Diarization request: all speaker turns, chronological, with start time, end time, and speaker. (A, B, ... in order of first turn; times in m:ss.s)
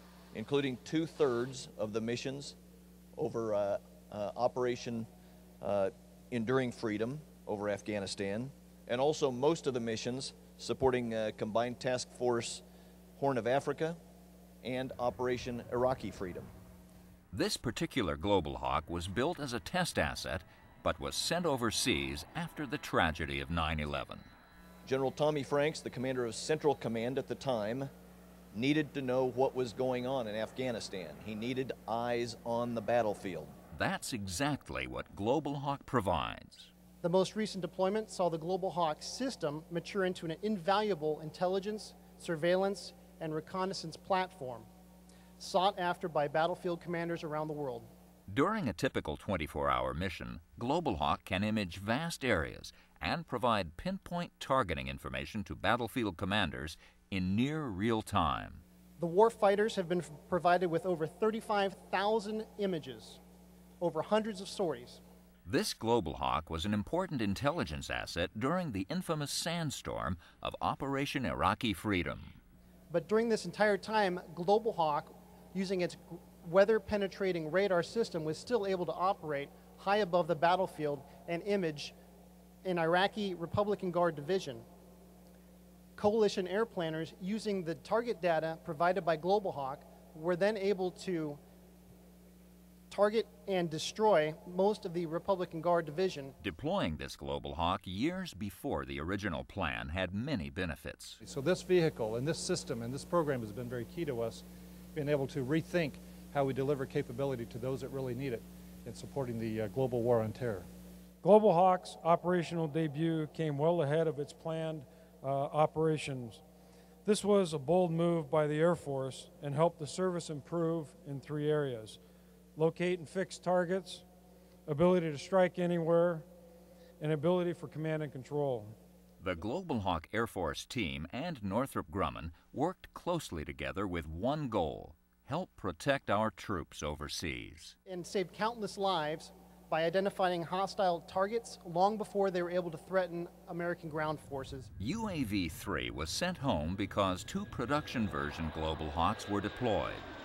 0:00.3-0:02.6 A
0:03.2-0:05.1 A
0:05.6-0:12.6 A
0:13.2-0:14.0 A
0:14.6-0:16.5 A
0:17.3-0:24.3 B
0:24.8-0:27.9 A
0:28.5-0:33.6 A
0:33.7-0:36.7 B
0:37.0-0:44.7 C
0:45.4-0:47.9 C
0:48.3-0:58.6 B
0:59.0-1:03.2 C
1:03.8-1:05.0 C
1:05.5-1:12.4 B
1:12.9-1:21.9 C
1:22.6-1:24.6 C
1:26.0-1:31.4 C
1:32.9-1:36.4 C
1:36.4-1:41.2 B
1:41.2-1:44.4 D
1:45.0-1:50.7 D
1:51.2-1:56.4 E
1:57.0-2:02.0 E
2:02.6-2:04.0 E
2:04.7-2:06.2 E
2:07.0-2:08.8 E
2:09.2-2:17.8 B
2:17.9-2:24.7 C
2:24.8-2:30.1 B